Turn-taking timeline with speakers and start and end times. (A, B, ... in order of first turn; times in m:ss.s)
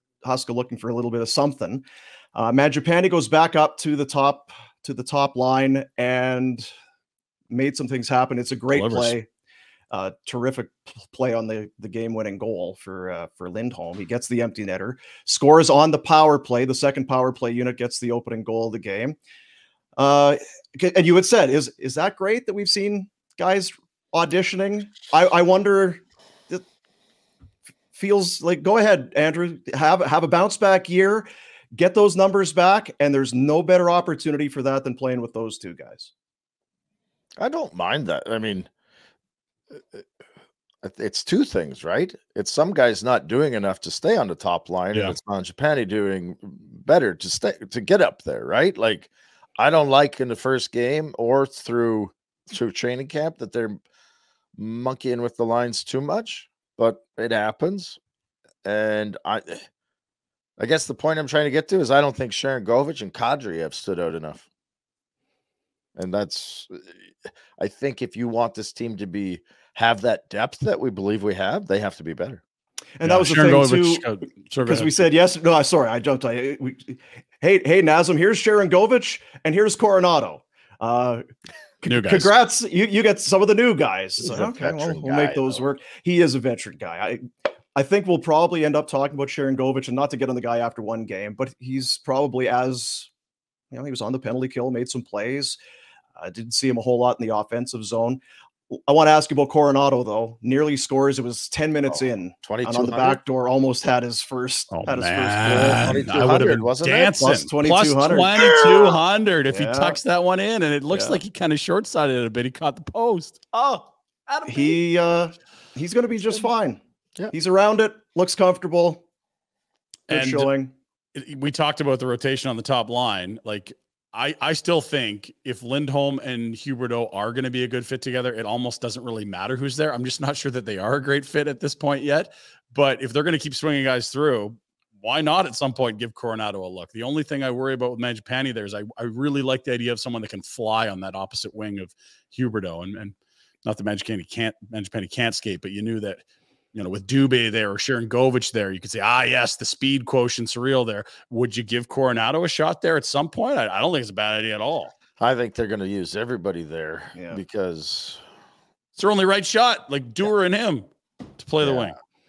0:00.2-0:01.8 A
0:02.3-0:06.7 A
0:07.5-0:09.3 A
0:08.7-0:09.1 B
0:09.9-0:19.2 A
0:20.0-0:26.6 A
0:27.9-0:36.1 A
0:37.4-0:38.7 C
0:39.7-0:40.0 C
0:40.8-0:53.8 C
0:54.6-0:58.0 C
0:58.6-0:59.6 C
1:00.6-1:04.4 C
1:06.0-1:12.4 C
1:13.0-1:14.0 A
1:13.0-1:15.0 B
1:14.6-1:21.2 A
1:21.8-1:27.2 A
1:21.8-1:22.3 B
1:24.2-1:25.6 C
1:27.8-1:33.1 A
1:33.7-1:35.6 A
1:36.2-1:38.2 A
1:38.8-1:45.9 A
1:42.4-1:43.2 C
1:44.7-1:54.8 B
1:45.4-1:47.1 C
1:47.2-1:49.0 A
1:49.5-1:50.0 A
1:50.9-1:51.2 A
1:54.4-1:59.0 A
2:00.1-2:00.5 B
2:00.1-2:00.7 A
2:01.1-2:34.9 B
2:35.2-2:38.2 C
2:37.1-2:37.4 A
2:39.0-2:40.9 B
2:41.4-2:42.0 B
2:41.6-2:41.9 C